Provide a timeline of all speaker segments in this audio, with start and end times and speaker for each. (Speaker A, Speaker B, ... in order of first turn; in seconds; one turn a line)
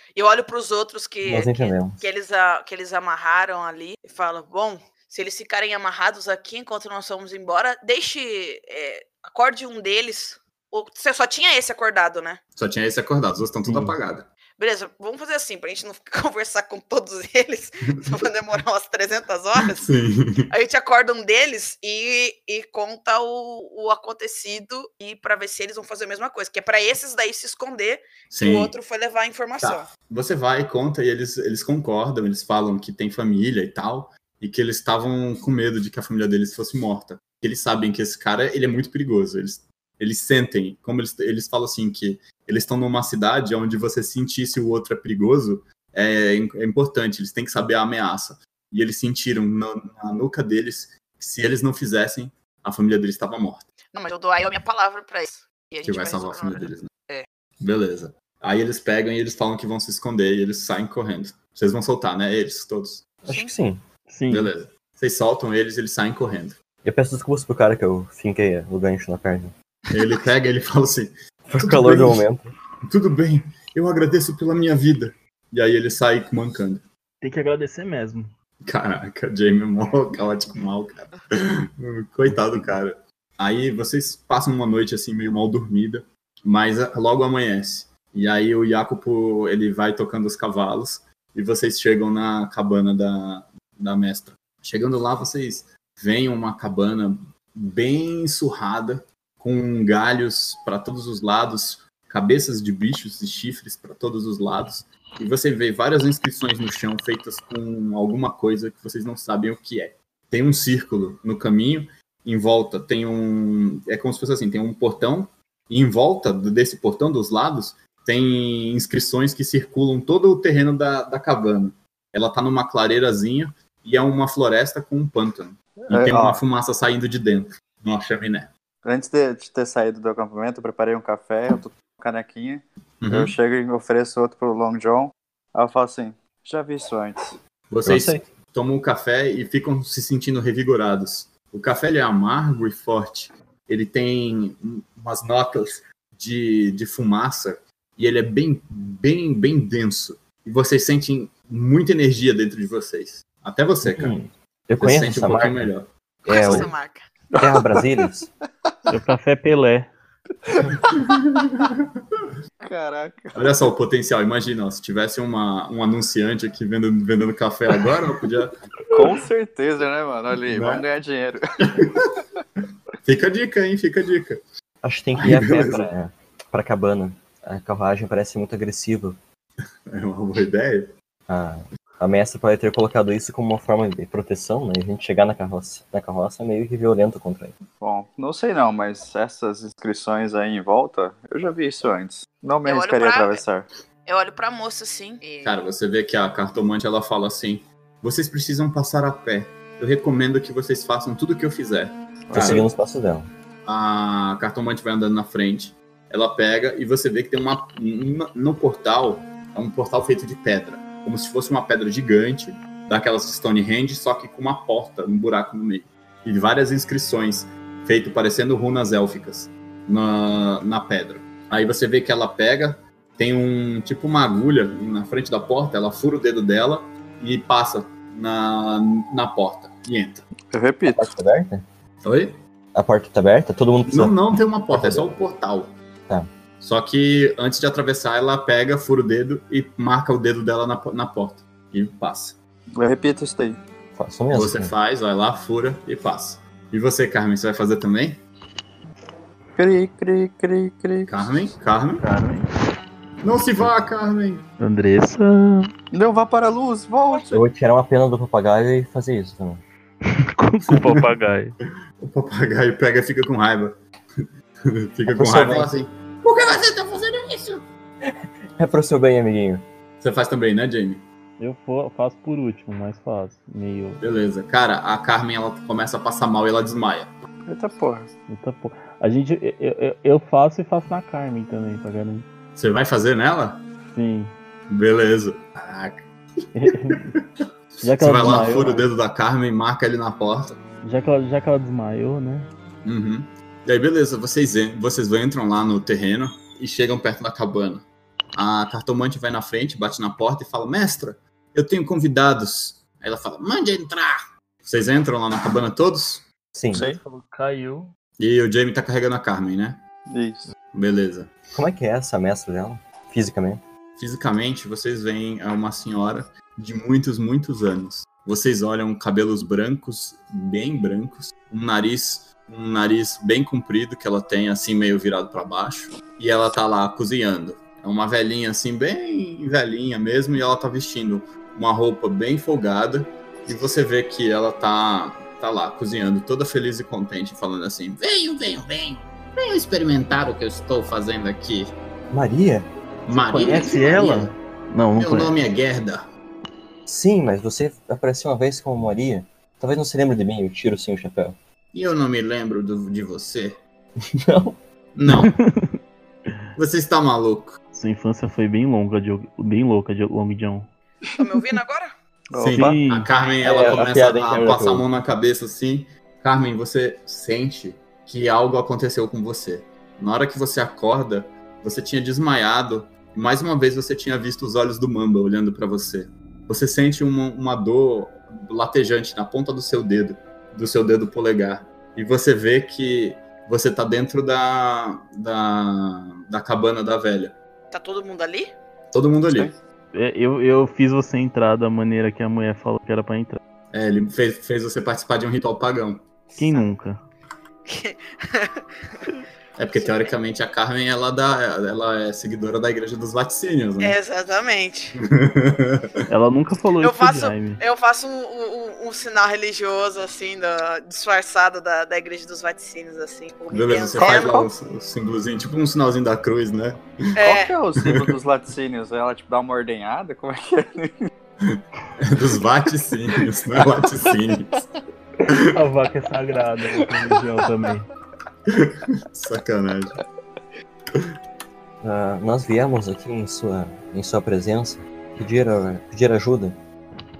Speaker A: 0.1-12.4
Speaker B: 1.2-2.0
Speaker C: 12.6-14.3
Speaker D: 13.7-13.9
Speaker A: 14.6-19.9
Speaker C: 19.7-20.5
Speaker A: 20.5-29.9
Speaker C: 28.3-28.7
Speaker C: 29.6-53.6
Speaker A: 53.9-57.2
Speaker C: 55.8-56.9
Speaker C: 57.6-63.0
Speaker B: 63.2-63.8
Speaker A: 63.3-63.5
Speaker D: 64.1-64.5
Speaker C: 64.3-66.6
Speaker B: 66.8-69.5
Speaker C: 69.9-72.3
Speaker B: 71.5-72.5
Speaker C: 72.9-76.8
Speaker D: 77.2-78.3
Speaker C: 78.6-128.5
Speaker E: 125.8-126.4
Speaker E: 128.8-137.4
Speaker C: 133.0-133.3
Speaker C: 137.7-154.1
Speaker B: 137.8-138.2
Speaker B: 153.8-155.7
Speaker C: 154.8-155.9
Speaker B: 156.3-156.7
Speaker A: 156.3-157.0
Speaker E: 157.4-158.0
Speaker B: 157.4-158.3
Speaker D: 158.9-159.9
Speaker E: 160.4-161.0
Speaker C: 161.0-162.2
Speaker E: 162.6-163.6
Speaker C: 163.3-168.6
Speaker E: 168.9-171.8
Speaker C: 170.5-170.8
Speaker C: 171.7-172.1
Speaker C: 173.0-174.4
Speaker B: 174.8-179.2
Speaker C: 175.2-175.9
Speaker C: 179.9-180.9
Speaker B: 181.3-187.6
Speaker E: 187.8-193.7
Speaker A: 192.6-193.4
Speaker A: 194.1-195.5
Speaker C: 195.4-202.7
Speaker B: 202.3-203.3
Speaker C: 203.7-230.3
Speaker E: 230.5-231.1
Speaker B: 230.9-231.6
Speaker C: 232.0-232.4
Speaker B: 232.7-234.2
Speaker C: 233.8-235.8
Speaker B: 234.7-235.1
Speaker C: 236.6-242.4
Speaker E: 242.8-243.6
Speaker B: 243.9-244.7
Speaker C: 244.3-248.2
Speaker E: 249.6-251.3
Speaker C: 251.1-252.0
Speaker D: 252.0-252.5
Speaker C: 253.2-254.4
Speaker D: 254.6-255.7
Speaker E: 255.9-257.4
Speaker B: 257.3-259.6
Speaker D: 260.2-261.6
Speaker C: 260.7-261.1
Speaker C: 262.0-267.6
Speaker B: 265.1-265.7
Speaker B: 268.0-269.6
Speaker C: 270.0-271.1
Speaker D: 271.4-274.0
Speaker C: 274.0-277.1
Speaker E: 277.5-278.1
Speaker D: 278.3-282.2
Speaker C: 282.6-283.6
Speaker D: 283.9-284.3
Speaker C: 284.7-286.0
Speaker D: 286.5-287.1
Speaker C: 286.9-287.4
Speaker D: 287.8-288.9
Speaker C: 288.0-290.6
Speaker D: 290.8-292.5
Speaker C: 292.8-306.3
Speaker B: 306.5-306.8
Speaker E: 306.7-307.0
Speaker D: 306.7-307.9
Speaker C: 308.2-309.8
Speaker E: 310.1-310.5
Speaker C: 310.7-311.3
Speaker B: 311.5-313.6
Speaker C: 314.0-341.7
Speaker B: 342.1-342.7
Speaker C: 343.1-344.3
Speaker D: 343.1-345.3
Speaker C: 344.9-346.1
Speaker B: 346.9-351.4
Speaker C: 351.7-353.6
Speaker B: 354.0-354.6
Speaker C: 354.9-355.4
Speaker D: 355.1-355.7
Speaker C: 356.6-357.6
Speaker D: 357.7-360.7
Speaker A: 361.2-361.9
Speaker E: 362.3-362.8
Speaker C: 362.4-387.4
Speaker D: 362.5-363.1
Speaker B: 363.4-364.8
Speaker A: 387.7-388.5
Speaker C: 388.9-389.5
Speaker D: 389.9-393.4
Speaker C: 393.7-396.1
Speaker A: 396.4-396.6
Speaker D: 396.4-397.0
Speaker A: 397.7-399.1
Speaker C: 399.6-404.0
Speaker A: 403.8-405.0
Speaker C: 405.0-406.0
Speaker D: 406.1-407.6
Speaker A: 406.8-414.3
Speaker C: 413.5-416.8
Speaker E: 414.0-414.5
Speaker A: 417.2-417.5
Speaker E: 417.2-421.1
Speaker C: 417.8-418.1
Speaker C: 421.4-424.6
Speaker D: 425.3-427.9
Speaker C: 428.5-430.0
Speaker B: 431.8-436.6